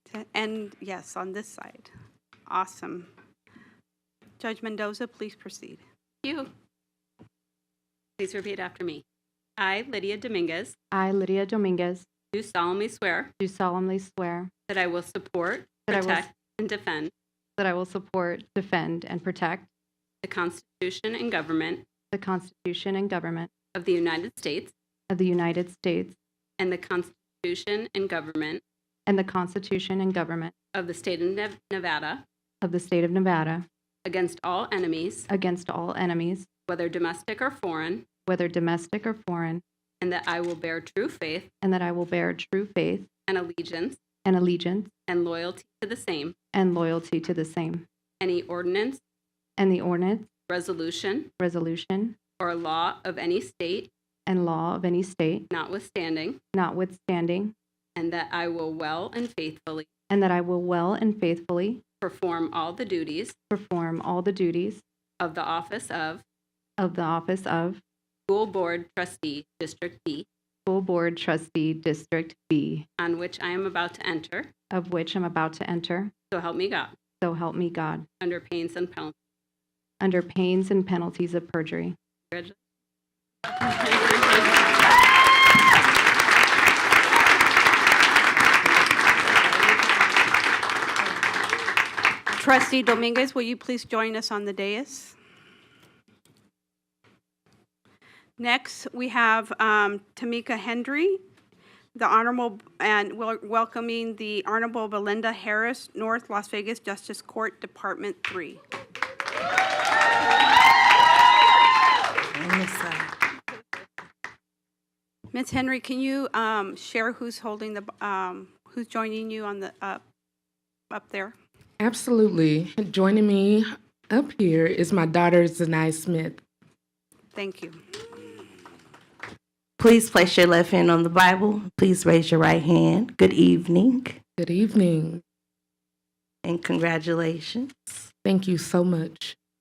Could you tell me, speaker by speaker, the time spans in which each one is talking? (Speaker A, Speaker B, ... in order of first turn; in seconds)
Speaker A: 0.1-1.9, 2.5-3.1, 4.4-5.8, 92.4-95.2, 98.4-101.2, 102.0-108.6, 115.3-120.0, 120.9-121.3, 127.3-127.8
Speaker B: 6.2-6.5, 8.2-9.0, 9.6-10.8, 12.3-13.3, 14.7-17.1, 20.2-21.8, 23.7-24.7, 26.6-28.6, 30.7-32.2, 34.0-35.3, 36.7-38.1, 40.0-41.5, 43.3-44.0, 45.1-46.4, 48.2-49.0, 50.5-51.3, 52.4-53.9, 55.5-56.4, 58.0-59.9, 62.0-63.4, 65.2-66.2, 68.3-70.3, 73.0-74.5, 76.3-77.0, 78.2-79.2, 82.3-82.6, 83.6-84.7
Speaker C: 10.9-12.1, 13.4-14.5, 15.9-16.2, 17.6-19.7, 22.1-23.5, 25.1-26.2, 29.1-30.5, 32.6-33.7, 35.3-36.5, 38.3-39.6, 41.6-43.1, 44.2-44.9, 46.5-47.9, 49.6-50.3, 51.4-52.2, 54.3-55.5, 56.5-57.5, 60.1-61.8, 63.5-64.8, 66.8-67.8, 70.7-72.9, 74.7-76.1, 77.2-78.1, 80.0-82.0
Speaker D: 112.3-113.1, 129.8-134.2, 136.4-138.1
Speaker E: 121.8-126.4, 134.4-135.2, 138.2-139.4